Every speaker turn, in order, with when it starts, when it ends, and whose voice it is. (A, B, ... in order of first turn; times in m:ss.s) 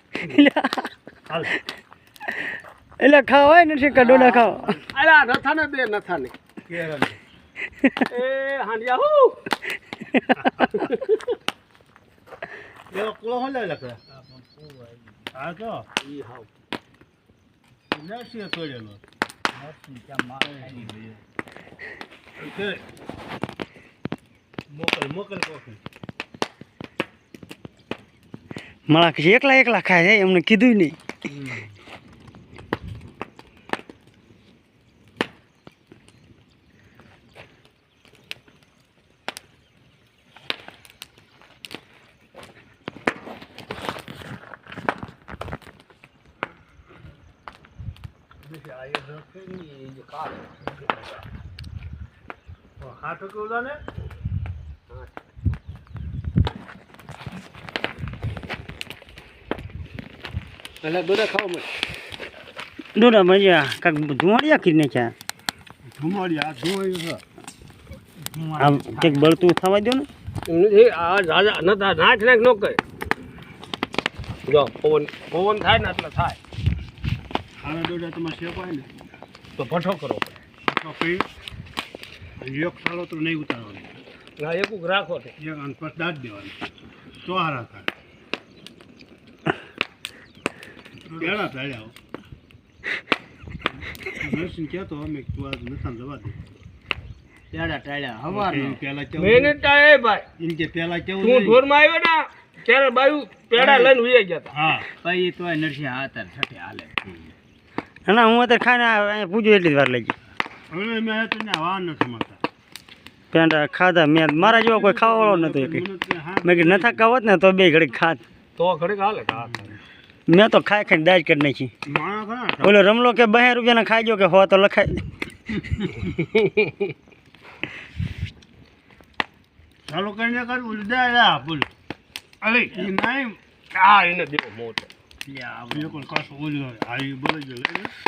0:00.2-0:00.9 A
0:02.3-0:04.8 A
0:04.0-0:06.3 B
0:06.7-0:07.2 C
0:07.8-0:08.1 A
0:08.1-0:09.5 B
0:10.0-0:10.7 A
0:10.8-0:11.3 B
0:12.9-0:14.0 C
0:14.1-0:15.3 D
0:15.3-0:15.9 C
0:16.0-0:16.5 B
0:17.9-0:19.0 C
0:19.5-0:21.2 D
0:20.4-0:20.9 C
0:22.4-0:22.8 C
0:24.7-0:25.8 C
0:28.9-0:31.0 A
0:31.3-0:31.7 C
0:48.4-0:49.3 C
0:49.3-0:51.2 B
0:52.8-0:53.8 C
1:00.8-1:01.7 B
1:02.9-1:05.1 A
1:05.9-1:07.2 C
1:08.3-1:09.4 D
1:08.6-1:10.1 A
1:10.5-1:12.8 B
1:14.5-1:16.4 B
1:17.6-1:18.9 C
1:19.6-1:20.4 B
1:20.7-1:21.3 C
1:22.4-1:23.9 C
1:24.4-1:25.3 B
1:25.4-1:26.6 C
1:27.2-1:27.9 C
1:31.1-1:31.9 C
1:34.1-1:36.3 C
1:37.5-1:38.8 D
1:38.3-1:39.6 C
1:39.2-1:40.3 B
1:40.4-1:41.7 C
1:41.2-1:44.6 B
1:43.5-1:44.0 C
1:44.5-1:44.9 C
1:45.0-1:47.3 D
1:48.0-1:50.1 A
1:50.7-1:52.4 C
1:53.3-1:55.8 A
1:54.4-1:57.0 C
1:56.4-1:58.2 A
1:58.6-1:59.8 B
1:59.4-1:59.7 C
2:00.3-2:01.7 A
2:01.8-2:02.7 C
2:02.6-2:05.0 A
2:06.1-2:06.9 B
2:09.8-2:11.7 C
2:12.4-2:13.4 C
2:13.7-2:14.9 B
2:15.2-2:16.1 D
2:15.7-2:17.9 C